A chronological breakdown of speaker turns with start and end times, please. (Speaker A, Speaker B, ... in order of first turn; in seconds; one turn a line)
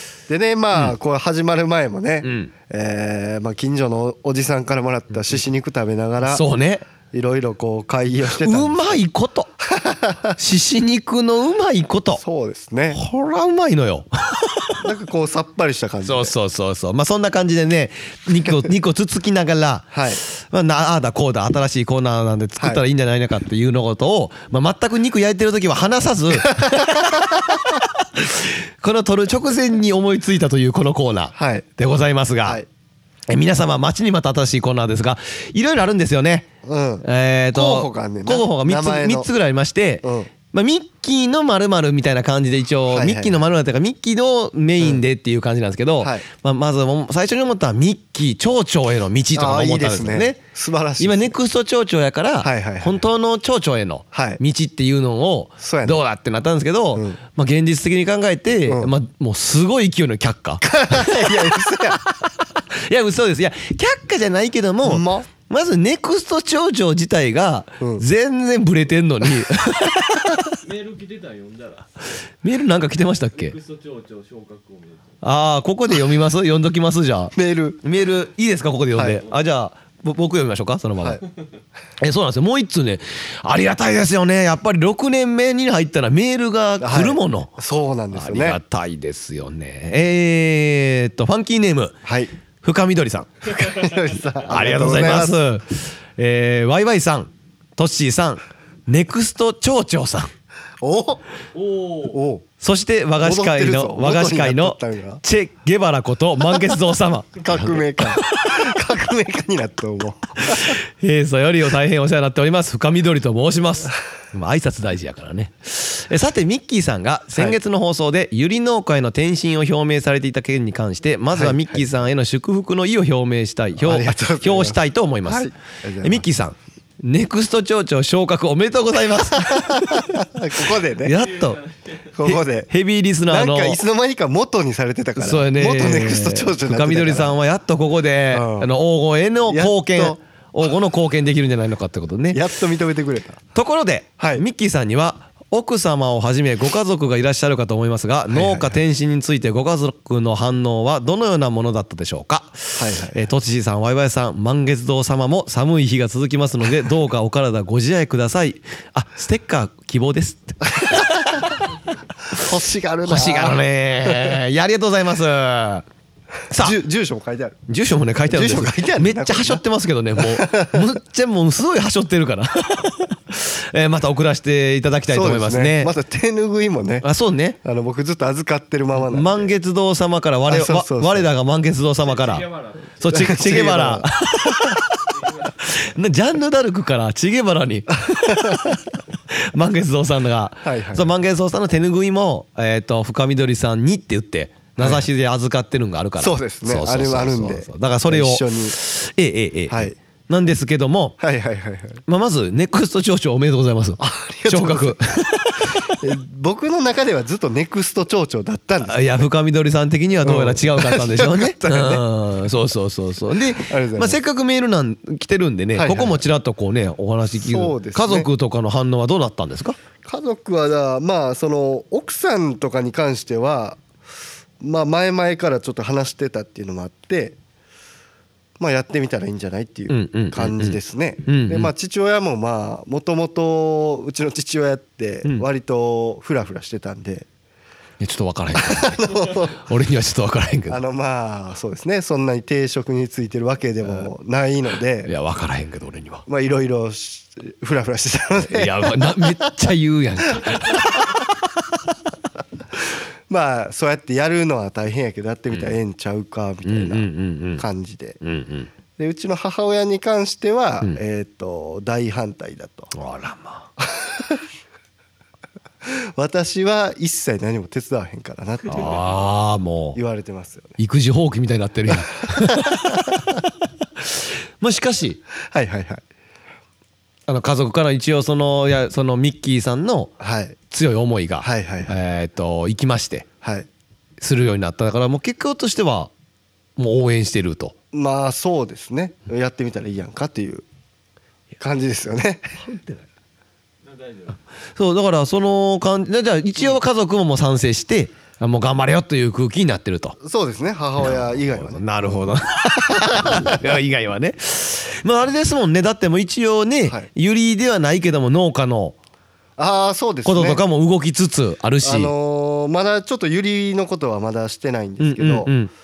Speaker A: 0.3-6.5
Speaker B: 2.2-2.5
Speaker B: 6.2-6.9
Speaker A: 7.1-9.0
Speaker B: 8.4-9.5
Speaker A: 9.6-10.3
Speaker B: 10.4-12.2
Speaker A: 12.2-13.0
Speaker B: 12.9-14.8
Speaker A: 14.8-16.3
Speaker B: 16.1-27.3
Speaker A: 19.9-20.2
Speaker A: 26.4-27.6
Speaker B: 28.1-32.6
Speaker A: 31.3-31.7
Speaker B: 33.3-36.5
Speaker A: 36.6-39.3
Speaker B: 37.0-50.4
Speaker A: 40.0-40.3
Speaker A: 42.9-43.4
Speaker A: 46.0-46.3
Speaker A: 49.4-51.4
Speaker B: 51.0-70.6
Speaker A: 52.4-53.0
Speaker A: 54.1-54.4
Speaker A: 55.6-56.0
Speaker A: 57.0-57.2
Speaker A: 60.6-62.0
Speaker A: 64.8-65.3
Speaker A: 67.8-68.0
Speaker C: 70.6-72.3
Speaker B: 72.4-73.6
Speaker C: 73.3-75.2
Speaker B: 75.2-81.2
Speaker A: 77.3-77.8
Speaker A: 79.0-79.2
Speaker C: 81.2-81.6
Speaker B: 82.0-87.6
Speaker A: 86.8-88.6
Speaker B: 88.1-92.0
Speaker A: 92.0-92.3
Speaker B: 92.6-93.5
Speaker A: 93.6-95.4
Speaker C: 93.6-94.5
Speaker B: 94.5-100.3
Speaker A: 100.8-101.2
Speaker C: 101.5-102.2
Speaker A: 102.1-102.4
Speaker B: 102.6-108.8
Speaker A: 103.2-105.2
Speaker A: 107.4-110.8
Speaker B: 110.4-125.5
Speaker A: 121.3-121.9
Speaker A: 123.8-126.3
Speaker B: 126.0-130.2
Speaker A: 129.4-131.2
Speaker B: 131.0-131.6
Speaker C: 131.1-132.2
Speaker A: 132.2-132.7
Speaker B: 132.2-133.8
Speaker A: 133.3-137.3
Speaker B: 135.2-142.4
Speaker A: 138.3-138.7
Speaker A: 139.5-140.2
Speaker A: 142.3-143.4
Speaker B: 143.5-161.5
Speaker A: 148.3-148.8
Speaker A: 152.8-153.2
Speaker A: 160.7-161.4
Speaker A: 162.3-164.4
Speaker B: 163.1-165.9
Speaker B: 166.5-166.8
Speaker A: 166.5-167.6
Speaker B: 167.7-175.9
Speaker A: 168.3-169.6
Speaker A: 170.2-170.8
Speaker A: 175.1-177.1
Speaker B: 177.0-177.6
Speaker A: 177.6-179.6
Speaker B: 179.0-182.5
Speaker A: 180.5-181.3
Speaker C: 182.0-183.4
Speaker B: 183.0-184.9
Speaker A: 183.1-184.1
Speaker C: 185.1-185.9
Speaker B: 185.7-201.2
Speaker A: 187.9-188.8
Speaker A: 190.6-191.1
Speaker A: 194.8-195.1
Speaker A: 196.2-198.8
Speaker A: 199.7-200.0
Speaker A: 201.2-202.0
Speaker B: 202.1-206.1
Speaker A: 204.0-205.0
Speaker A: 205.7-209.2
Speaker B: 208.8-219.8
Speaker A: 210.2-212.1
Speaker A: 213.6-214.2
Speaker A: 215.8-216.2
Speaker A: 217.3-218.3
Speaker A: 220.0-223.8
Speaker A: 224.6-227.4
Speaker A: 228.6-237.3
Speaker B: 229.9-231.7
Speaker B: 238.0-240.8
Speaker A: 238.6-239.6
Speaker A: 240.7-245.1
Speaker B: 245.1-246.3
Speaker A: 246.3-249.5
Speaker B: 248.4-251.0
Speaker A: 250.4-251.0
Speaker A: 253.3-258.2
Speaker B: 256.6-257.6
Speaker B: 258.2-258.7
Speaker A: 259.0-262.9
Speaker B: 262.9-263.7
Speaker A: 263.8-264.4
Speaker A: 265.9-269.0
Speaker B: 268.7-270.0
Speaker A: 269.9-270.8
Speaker B: 270.8-273.4
Speaker A: 272.3-273.2
Speaker B: 274.0-275.2
Speaker A: 275.4-276.0
Speaker B: 277.3-280.1
Speaker A: 280.2-280.6
Speaker B: 280.7-283.3
Speaker A: 281.4-281.9
Speaker A: 283.4-283.7
Speaker B: 284.2-286.1
Speaker B: 286.8-287.7
Speaker A: 287.9-290.6
Speaker A: 291.6-292.6
Speaker B: 292.6-293.1
Speaker C: 293.8-294.4
Speaker B: 294.8-300.2
Speaker A: 300.2-302.2
Speaker B: 301.0-309.0
Speaker A: 302.9-303.6
Speaker A: 309.6-310.6
Speaker B: 310.2-312.1
Speaker A: 311.8-315.5
Speaker B: 315.0-315.7